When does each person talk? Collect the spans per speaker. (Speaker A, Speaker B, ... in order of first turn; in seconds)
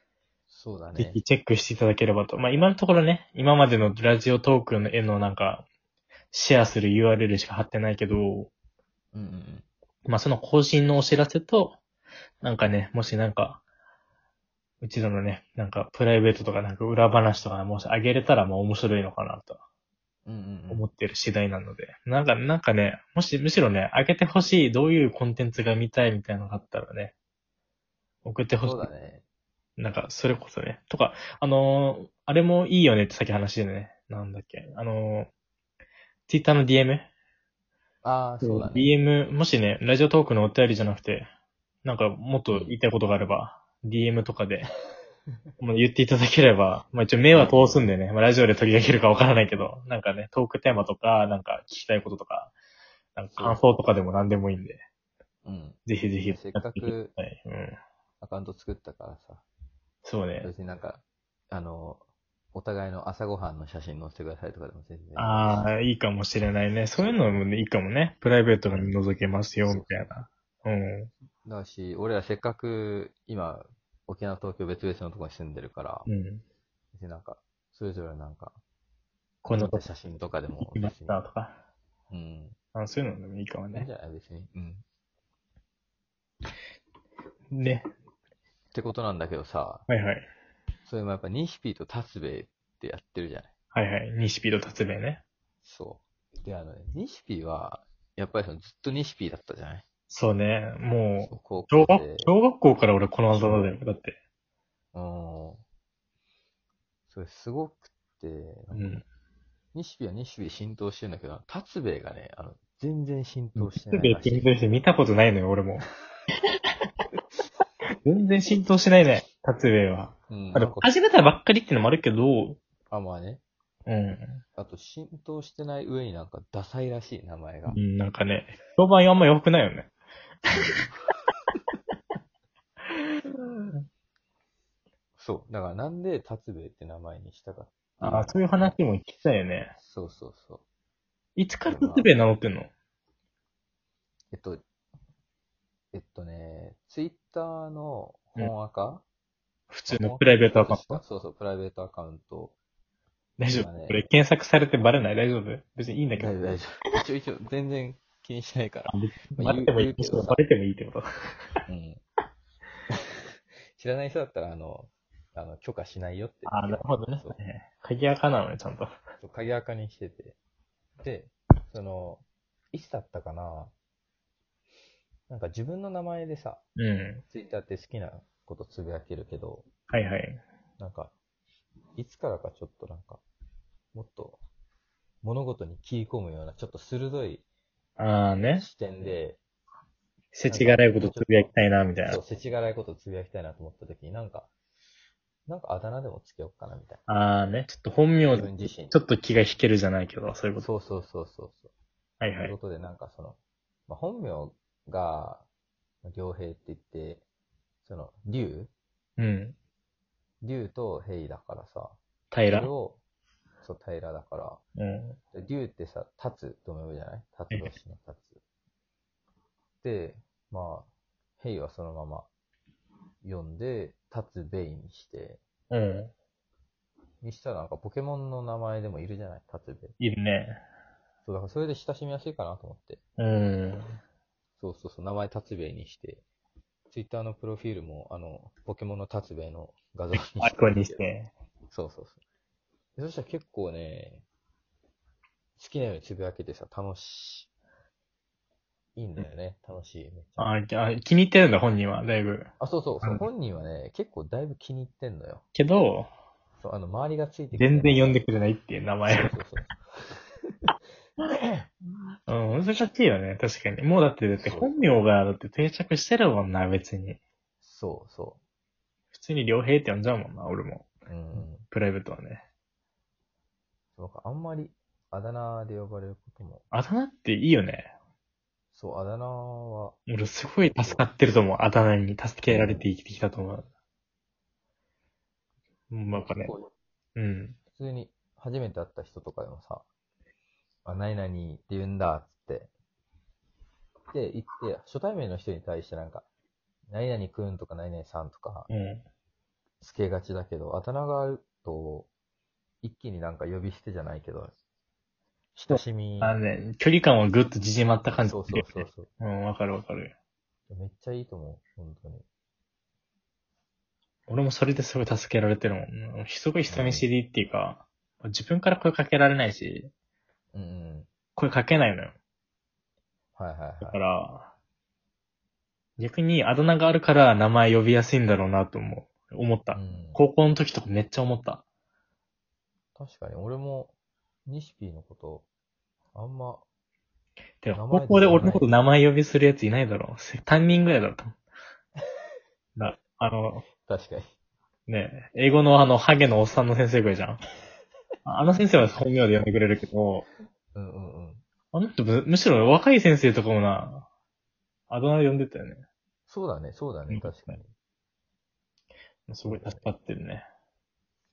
Speaker A: 0.5-1.2, 9.1-9.7, 20.2-20.8, 28.6-29.2, 38.0-38.9, 42.5-42.8, 47.3-47.8, 53.4-53.6, 55.4-57.1, 58.2-59.4, 60.4-65.7, 69.7-70.1, 71.4-76.1, 76.9-78.6, 79.5-81.2, 82.1-82.6, 83.7-84.8, 88.7-89.8, 90.8-93.5, 95.6-99.8, 101.2-102.3, 103.3-103.6, 104.9-105.6, 107.1-109.0, 109.7-114.5, 120.3-120.9, 122.9-123.4, 124.6-127.8, 135.2-138.7, 139.8-140.6, 141.7-142.1, 144.3-144.6, 145.9-149.0, 149.9-152.6, 153.5-154.0, 156.2-160.4, 161.7-162.0, 162.9-163.2, 163.8-167.4, 169.2-170.4, 171.0-173.7, 175.3-176.6, 177.3-179.6, 180.8-181.1, 181.9-183.2, 183.9-184.4, 185.2-187.4, 188.5-189.4, 190.5-191.4, 192.1-194.5, 195.5-197.0, 198.3-199.0, 200.6-201.7, 202.4-205.5, 206.0-207.2, 207.8-208.7, 210.4-212.0, 212.5-213.0, 213.6-214.6, 215.3-218.4, 219.8-222.3, 223.2-225.4, 227.2-229.9, 231.2-233.0, 234.6-236.2, 236.9-241.1, 241.7-242.2, 242.9-244.2, 245.6-247.5, 248.9-250.5, 252.6-255.4, 256.6-258.2, 259.1-260.2, 261.3-261.7, 264.4-265.0, 267.6-268.4, 271.1-271.6, 273.9-276.6, 278.7-280.0, 280.7-281.1, 282.5-282.8, 286.1-286.7, 287.7-289.9, 290.8-292.7, 294.1-296.2, 296.9-298.7, 299.8-302.1, 302.8-304.5, 305.6-306.4, 308.1-309.1, 310.7-312.2, 316.7-317.1, 320.5-321.1, 323.4-324.0, 329.7-330.2, 332.9-333.9, 334.4-335.4, 336.1-336.6, 337.7-338.6, 343.8-344.3, 350.7-351.4, 356.3-357.7, 359.4-359.9
Speaker B: 1.0-5.6, 6.3-8.5, 10.1-11.8, 12.4-13.6, 14.8-19.6, 20.7-27.1, 28.2-28.9, 29.8-35.3, 36.3-37.1, 38.4-41.3, 41.8-44.7, 45.6-52.5, 53.1-54.8, 55.9-57.8, 60.0-60.5, 65.2-71.1, 76.1-76.4, 79.4-79.8, 80.6-81.6, 82.7-83.9, 87.5-87.8, 89.9-90.3, 93.7-95.2, 100.1-104.2, 108.7-109.0, 113.5-115.8, 118.0-122.6, 123.9-124.4, 127.7-129.9, 138.0-139.7, 141.3-142.7, 149.7-151.0, 153.4-156.6, 158.9-161.0, 166.4-168.9, 176.8-177.2, 179.9-180.4, 188.0-188.7, 190.3-192.2, 197.1-200.7, 202.2-202.5, 209.2-209.6, 212.3-212.7, 214.8-215.2, 225.7-226.1, 230.0-230.6, 233.2-233.9, 240.4-241.3, 250.4-252.5, 255.5-256.1, 257.5-259.3, 262.3-267.2, 269.1-272.4, 276.7-277.9, 280.1-283.7, 285.9-286.5, 287.1-287.6, 298.7-299.0, 305.7-310.1, 314.3-319.9, 321.4-322.1, 323.8-324.5, 326.0-331.6, 337.6-341.3, 342.8-343.6, 344.9-347.4, 348.2-350.2, 351.7-354.1, 354.9-355.8, 357.1-357.6, 359.3-360.4